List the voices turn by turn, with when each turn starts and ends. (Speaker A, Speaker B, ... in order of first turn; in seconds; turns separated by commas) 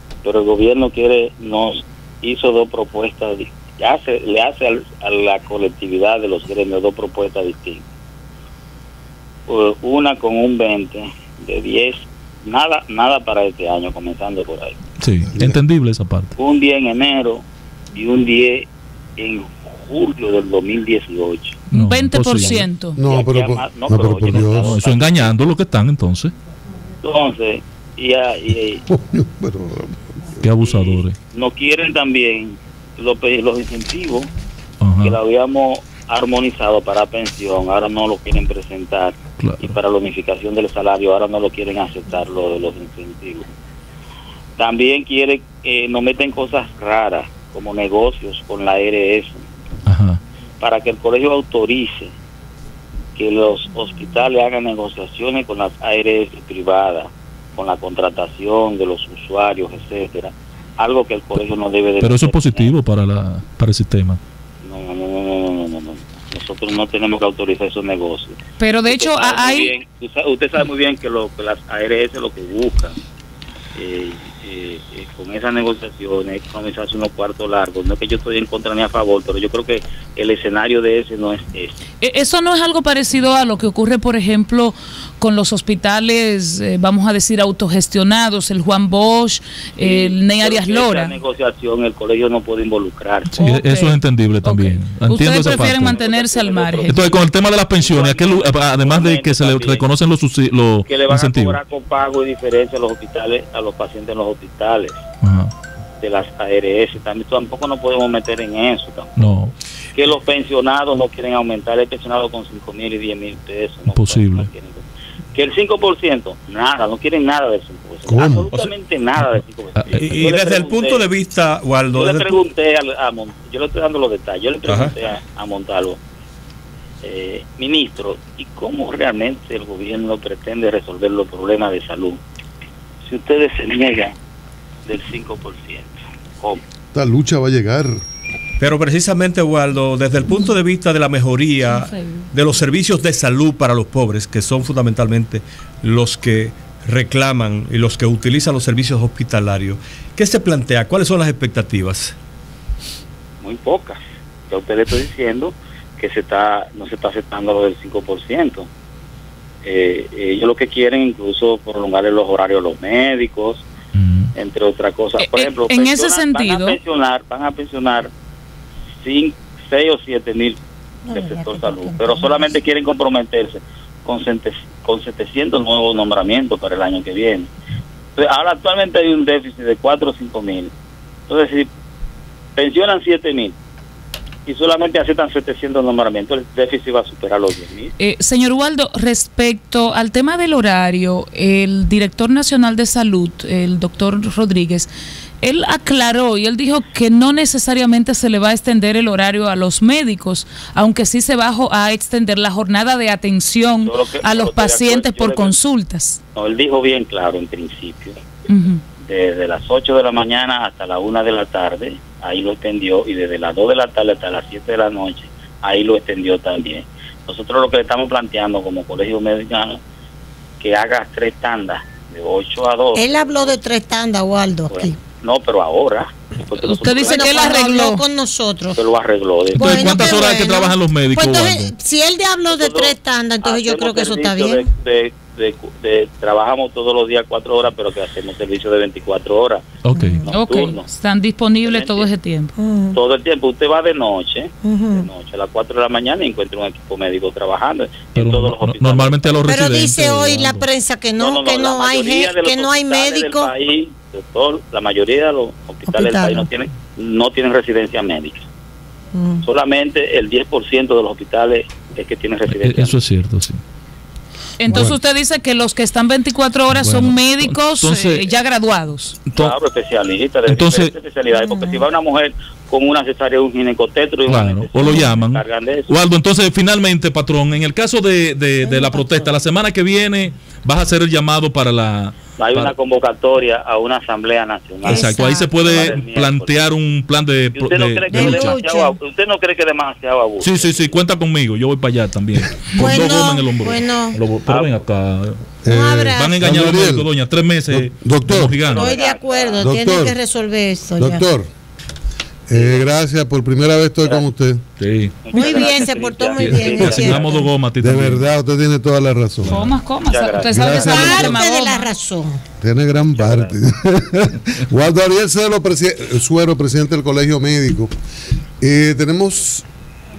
Speaker A: 0.2-7.8, Speaker A: 9.5-14.8, Speaker B: 15.0-16.3, Speaker A: 16.4-18.6, Speaker A: 19.2-21.6, Speaker C: 21.7-23.0, Speaker B: 21.7-22.6, Speaker D: 22.9-24.8, Speaker A: 23.1-25.4, Speaker B: 24.3-26.3, Speaker A: 27.0-28.8, Speaker D: 28.9-30.1, Speaker B: 30.4-31.1, Speaker A: 30.6-34.3, Speaker B: 34.8-35.2, Speaker A: 35.0-43.5, Speaker B: 39.4-39.7, Speaker A: 44.6-49.4, Speaker B: 49.9-50.2, Speaker A: 50.6-52.1, Speaker A: 53.1-62.7, Speaker B: 62.0-64.2, Speaker A: 64.6-72.9, Speaker C: 68.6-69.7, Speaker A: 73.7-81.7, Speaker C: 82.0-91.1, Speaker A: 89.8-93.5, Speaker C: 93.3-97.1, Speaker B: 93.4-96.0, Speaker A: 95.3-97.2, Speaker B: 96.9-101.6, Speaker A: 97.8-99.9, Speaker A: 100.8-105.0, Speaker B: 105.2-105.5, Speaker A: 106.0-109.4, Speaker B: 109.2-109.5, Speaker A: 109.9-121.0, Speaker B: 113.9-114.5, Speaker D: 118.0-118.5, Speaker B: 119.2-120.2, Speaker E: 119.9-122.4, Speaker A: 121.9-126.0, Speaker E: 124.7-124.9, Speaker A: 127.0-132.2, Speaker A: 133.1-134.1, Speaker A: 134.8-136.6, Speaker D: 136.9-138.0, Speaker E: 138.6-152.1, Speaker C: 141.7-142.2, Speaker A: 153.4-158.7, Speaker A: 159.6-163.6, Speaker B: 163.9-164.3, Speaker A: 164.3-168.1, Speaker C: 165.2-166.8, Speaker A: 169.0-170.6, Speaker F: 171.1-172.4, Speaker A: 171.1-177.5, Speaker A: 178.1-180.7, Speaker A: 181.3-181.7, Speaker A: 182.6-183.5, Speaker A: 184.4-187.9, Speaker C: 188.0-194.9, Speaker C: 195.4-206.2, Speaker A: 203.8-205.5, Speaker A: 206.3-208.2, Speaker C: 208.5-208.8, Speaker A: 209.0-219.8, Speaker A: 220.6-223.6, Speaker F: 222.9-224.9, Speaker A: 224.7-227.6, Speaker C: 226.6-228.0, Speaker F: 227.0-228.8, Speaker A: 228.7-230.1, Speaker B: 229.5-231.7, Speaker F: 229.5-234.6, Speaker A: 232.5-239.6, Speaker B: 239.8-240.2, Speaker F: 239.9-240.3, Speaker A: 240.3-240.8, Speaker C: 240.3-242.5, Speaker A: 241.6-242.1, Speaker F: 242.6-243.0, Speaker A: 242.9-249.5, Speaker F: 244.6-245.1, Speaker B: 248.1-250.7, Speaker F: 249.4-253.5, Speaker A: 251.2-258.4, Speaker F: 255.9-256.5, Speaker F: 259.1-259.4, Speaker A: 259.4-263.0, Speaker B: 262.5-263.6, Speaker C: 264.6-269.2, Speaker D: 264.7-265.0, Speaker B: 266.7-268.3, Speaker B: 269.3-269.6, Speaker A: 269.3-275.9, Speaker B: 270.5-270.9, Speaker F: 271.3-271.8, Speaker B: 274.3-282.7, Speaker F: 278.6-279.3, Speaker A: 282.4-286.6, Speaker B: 284.8-288.6, Speaker F: 284.9-286.0, Speaker A: 287.5-290.9, Speaker F: 288.1-288.9, Speaker B: 290.4-295.4, Speaker F: 292.7-294.2, Speaker A: 294.5-294.7, Speaker D: 295.6-297.1, Speaker F: 295.7-296.4, Speaker B: 296.1-299.0, Speaker D: 297.7-298.6, Speaker A: 298.7-299.6, Speaker F: 298.7-301.3, Speaker D: 299.6-300.2, Speaker D: 301.0-301.5, Speaker D: 302.5-304.6, Speaker A: 302.5-302.9, Speaker B: 304.8-305.1, Speaker A: 305.2-307.4, Speaker F: 305.3-307.5, Speaker D: 306.4-307.2, Speaker B: 306.4-308.3, Speaker D: 307.8-309.7, Speaker C: 309.4-311.9, Speaker A: 310.1-311.1, Speaker D: 310.5-311.4, Speaker F: 310.8-312.4, Speaker D: 312.6-317.9, Speaker A: 313.1-313.5, Speaker D: 318.6-319.6